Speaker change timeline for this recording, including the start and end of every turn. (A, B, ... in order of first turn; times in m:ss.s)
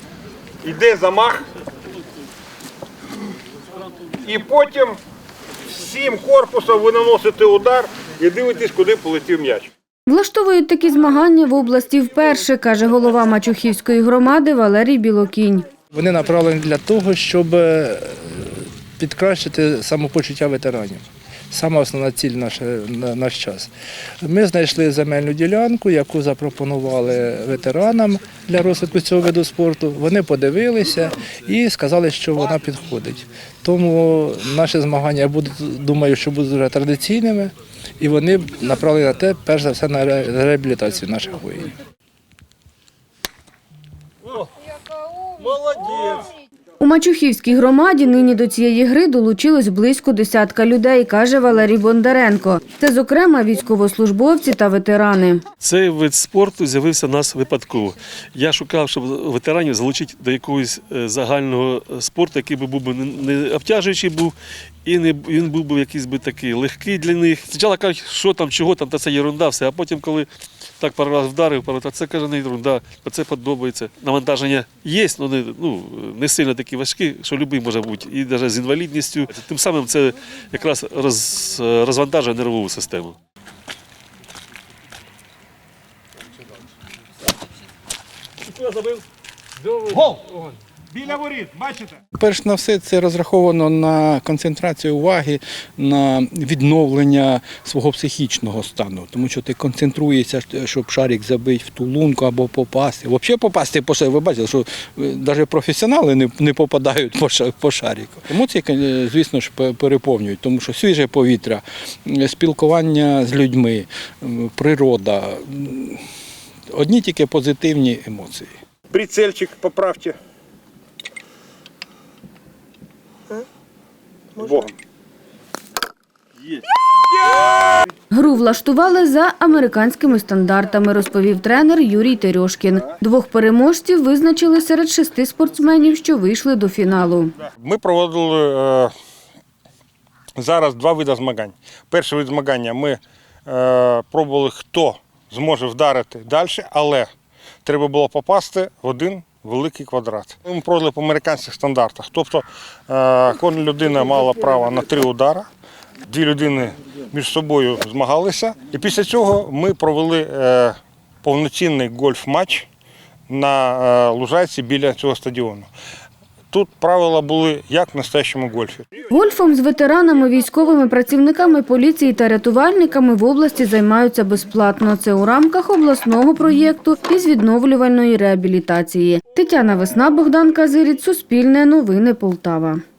0:00.6-0:01.4 A
0:04.2-0:05.0 A
0:05.7-0:09.7 A
0:10.1-0:15.6 B
0:15.9-0:23.7 C
0:24.2-0:41.7 C
0:45.6-0:45.9 D
0:46.8-0:55.4 B
0:55.6-1:04.3 D
1:04.8-1:10.3 D
1:10.8-1:23.2 D
1:28.5-1:29.0 D
1:29.6-1:30.5 D
1:31.6-1:56.0 E
1:56.7-1:58.5 E
1:58.9-2:00.2 A
2:04.4-2:04.7 A
2:08.1-2:17.3 B
2:17.5-2:18.9 A
2:20.4-2:27.1 A
2:27.6-2:35.5 A
2:36.0-2:42.7 A
2:43.3-2:45.7 A
2:46.5-2:48.9 A
2:49.1-3:02.8 B